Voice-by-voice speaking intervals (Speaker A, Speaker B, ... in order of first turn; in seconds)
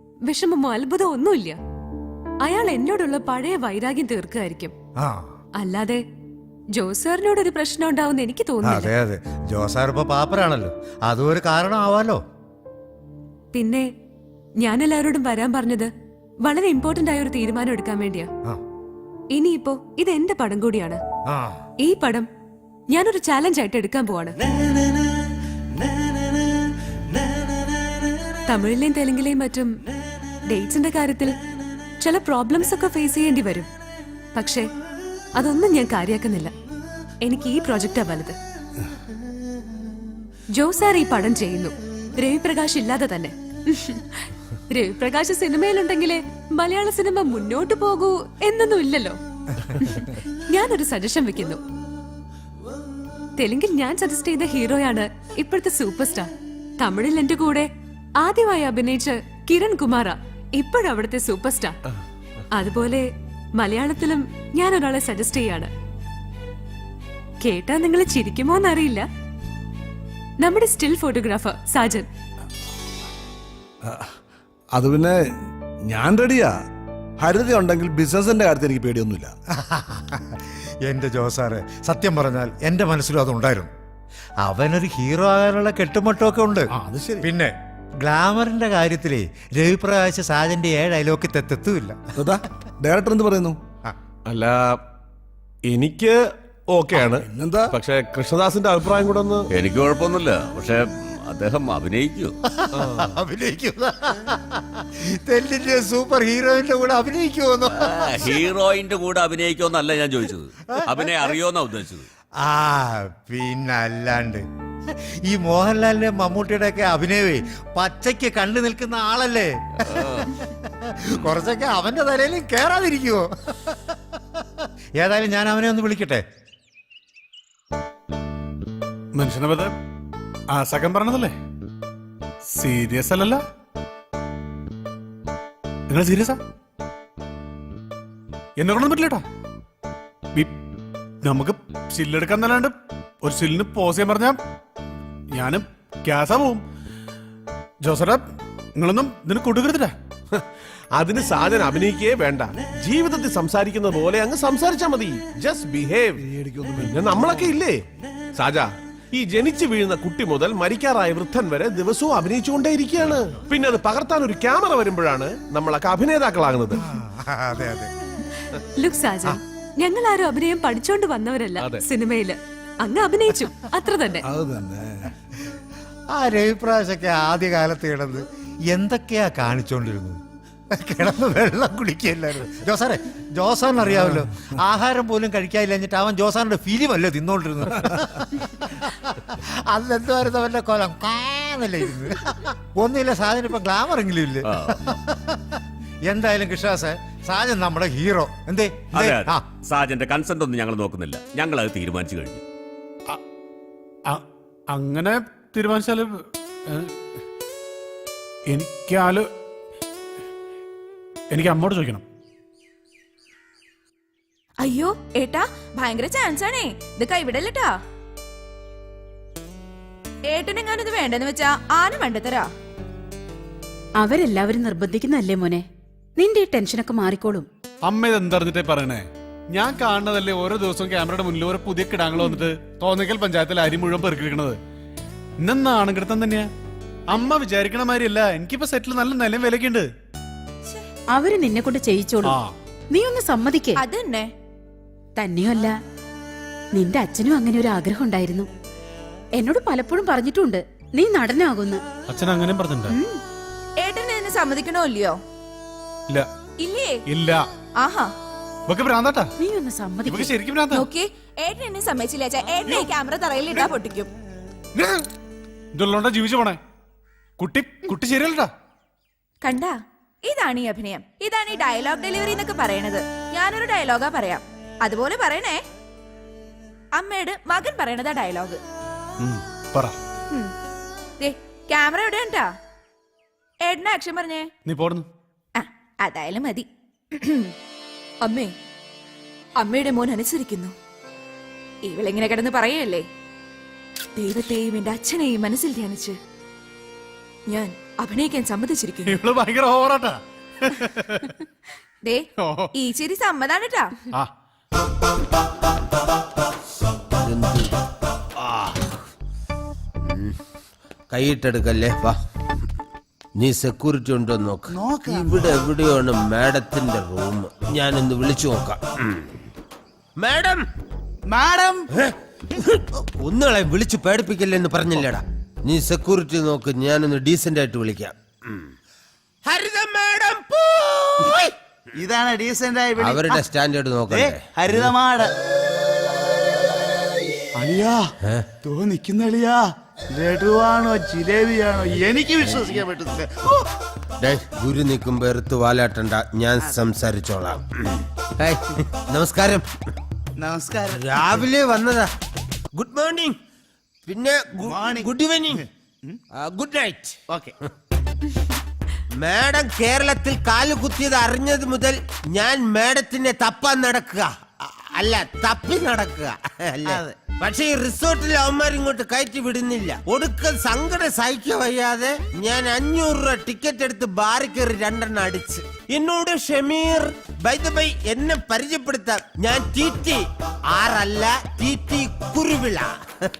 Speaker A: 0.2-1.6, 2.4-4.7, 5.6-6.0, 6.8-8.9, 13.5-13.9, 14.6-15.9, 16.4-18.3, 19.3-21.0, 21.8-22.3, 22.9-24.4, 28.4-29.8, 30.4-31.4, 32.0-33.7, 34.3-34.6, 35.4-36.5, 37.2-38.4, 40.5-51.6, 53.4-57.7, 58.2-61.8, 62.5-65.7, 67.4-69.0, 70.4-72.1, 168.8-174.2
Speaker B: 5.0-5.3, 8.6-12.2, 21.3-21.6, 79.6-83.7, 84.4-86.7, 87.2-92.0, 102.5-108.4, 110.7-110.9, 112.4-114.4, 115.2-123.8, 125.0-126.2, 166.7-167.9, 176.1-180.2, 180.7-199.4
Speaker C: 73.8-74.1, 74.7-75.2, 75.8-76.6, 77.2-79.3, 86.7-87.3, 92.2-93.6, 96.9-97.7, 156.2-157.6, 174.2-175.1
Speaker D: 94.2-94.8, 95.6-96.2, 96.7-99.4, 150.9-156.2, 156.8-157.8, 158.4-166.7
Speaker E: 99.5-102.3, 107.8-112.1, 194.4-194.7, 198.9-202.4
Speaker F: 129.1-129.7, 130.5-131.3, 132.5-133.4, 135.9-136.4, 138.6-139.2, 141.2-144.4, 145.3-146.6, 147.8-148.2, 148.8-149.9, 204.1-206.9, 208.5-209.3, 211.3-212.0, 227.8-234.6, 235.4-236.5, 237.1-239.9, 242.2-242.5, 252.1-252.9, 257.1-257.4, 258.7-259.3, 260.0-260.9, 264.8-265.0, 265.7-266.6, 267.4-268.5, 279.2-279.9, 284.6-285.1, 299.0-301.3, 302.4-302.7
Speaker G: 214.6-217.7, 220.3-222.5, 243.8-244.3, 253.8-255.2, 256.6-257.0, 257.8-258.1, 260.7-264.1, 269.4-275.6, 276.9-278.6, 281.2-282.5, 283.6-284.5, 285.6-286.7, 287.2-287.5, 288.2-288.5, 289.6-290.7, 291.8-293.1, 294.1-296.2, 297.5-299.2, 302.0-304.0
Speaker H: 224.0-225.6, 226.2-227.4, 241.1-242.3, 242.9-243.8, 245.2-245.8, 246.7-248.5, 249.3-251.8, 252.9-253.2, 259.4-260.3
Speaker I: 307.2-307.8, 308.4-308.8, 310.1-310.4, 311.1-312.1, 313.4-319.2, 320.2-320.6, 322.0-328.6, 329.4-331.5, 333.0-334.9, 344.2-349.6, 350.9-352.1, 352.7-353.3, 354.1-355.6, 356.3-357.2, 359.2-382.9
Speaker J: 314.7-315.5, 321.3-321.9, 331.9-333.5, 334.1-335.3, 337.6-338.1, 338.6-343.6, 350.4-351.5, 354.6-356.2, 357.3-357.5, 366.9-367.2